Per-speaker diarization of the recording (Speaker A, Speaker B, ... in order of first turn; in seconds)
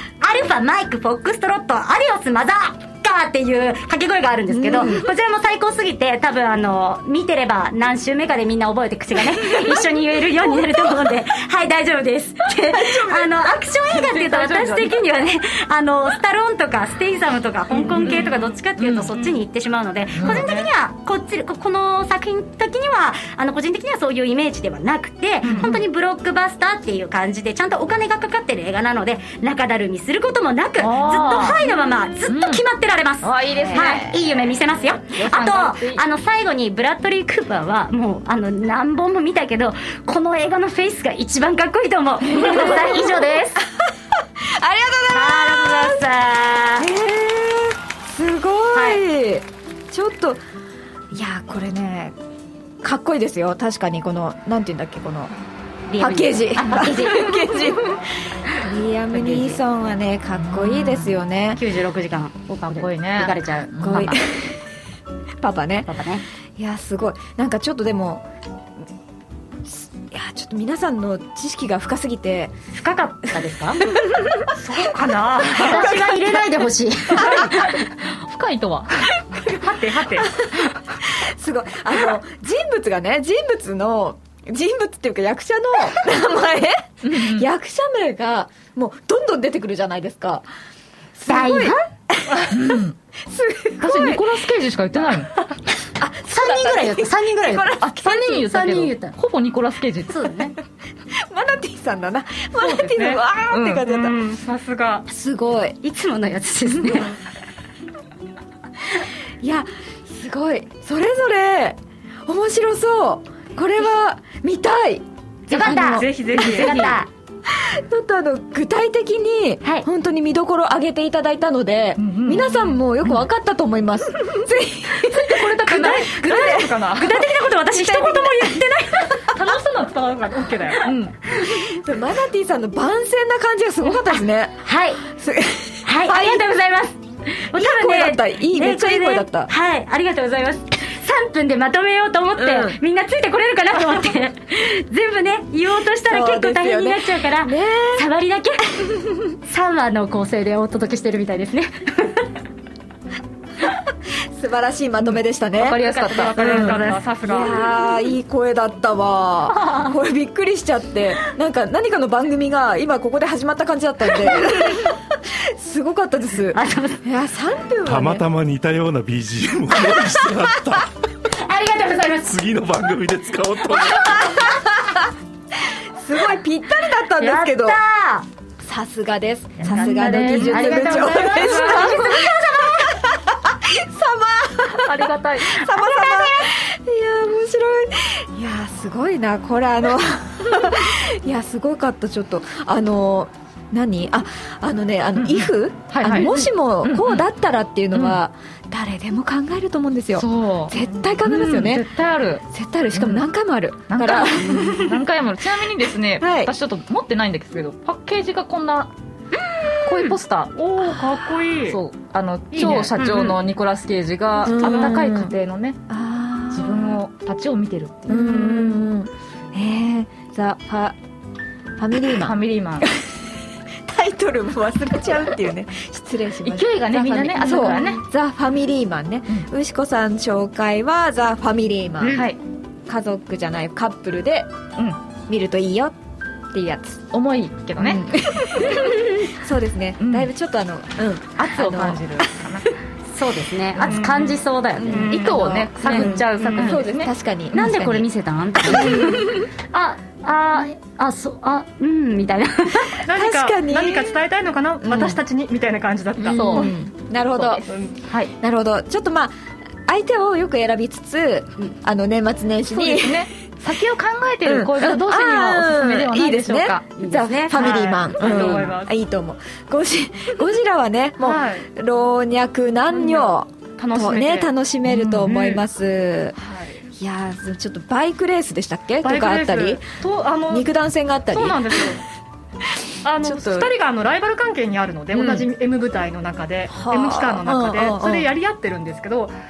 Speaker A: 0.2-43.6, 45.1-46.9, 48.7-49.0, 55.9-57.3, 59.1-59.6, 61.5-64.2, 65.9-66.2, 72.7-73.9, 75.5-77.8, 91.3-91.8, 96.3-99.2, 100.1-100.5, 105.8-107.1, 115.5-117.1, 134.7-135.0, 135.8-148.6, 149.4-152.3, 155.9-157.0, 159.5-159.9, 166.5-167.0, 171.4-172.4, 177.2-178.3, 179.6-182.9, 185.7-186.5, 209.9-210.2, 243.1-245.2, 245.8-246.8, 247.5-253.0, 267.0-267.8
Speaker B: 4.5-5.1, 33.6-34.0, 42.3-46.0, 46.8-50.4, 51.1-52.1, 52.8-55.3, 56.0-61.6, 63.8-64.6, 65.4-65.9, 66.6-68.2, 69.7-72.5, 73.8-74.3, 75.7-76.0, 80.2-90.5, 91.2-92.5, 93.2-94.4, 96.0-98.4, 101.1-104.2, 105.1-105.8, 109.4-116.9, 117.5-129.2, 131.3-136.5, 137.5-139.5, 142.4-142.8, 146.1-148.1, 154.3-155.8, 156.4-168.2, 169.8-170.2, 175.7-177.8, 178.6-201.9, 202.5-204.9, 206.2-206.5, 214.4-215.3, 215.9-217.0, 218.1-221.0, 221.8-223.0, 223.9-232.3, 232.9-234.5, 235.3-235.9, 236.5-237.1, 237.8-242.7, 244.8-248.1, 248.6-249.3, 253.1-254.3, 254.8-255.2, 256.2-257.7, 258.3-259.3, 259.9-263.3, 264.4-276.4, 277.0-279.9, 280.5-282.0, 283.2-283.7, 285.1-285.5, 286.7-288.3
Speaker C: 13.9-14.9, 18.0-19.1, 20.2-20.4, 25.4-25.8, 30.8-31.7, 32.3-32.6, 33.2-34.1, 35.1-36.0, 42.5-43.2, 60.5-61.1, 62.8-64.2, 78.0-79.0, 87.0-87.5, 92.5-93.0, 93.8-95.3, 97.8-100.3, 103.5-103.8, 122.0-122.5, 125.2-126.2, 130.8-131.1, 155.6-156.9, 179.7-182.2, 184.8-185.7, 195.2-197.3, 197.9-198.2, 200.2-203.2, 203.9-208.9, 209.8-210.5, 211.7-215.8, 216.5-218.1, 222.1-222.9, 226.4-228.0, 232.1-232.4, 237.1-238.9, 240.0-240.3, 241.4-242.7, 245.1-247.1, 248.7-249.4, 256.2-256.7, 257.4-258.3, 262.7-266.9, 268.2-268.7, 274.9-275.5
Speaker D: 17.8-18.3, 20.2-20.7, 74.5-76.5, 77.1-77.5, 79.4-80.3, 102.6-103.2, 103.8-105.0, 115.5-117.0, 122.3-122.8, 125.2-130.9, 155.9-157.6, 210.6-211.8, 212.5-213.3, 214.6-214.9, 218.1-218.8, 243.8-245.5, 246.4-246.7, 253.1-256.7, 257.6-257.9, 267.5-268.9, 271.2-271.7, 272.9-274.5, 275.3-275.6, 276.4-276.8, 279.0-280.7, 281.3-282.0, 283.0-289.3
Speaker E: 167.8-170.9, 172.2-174.6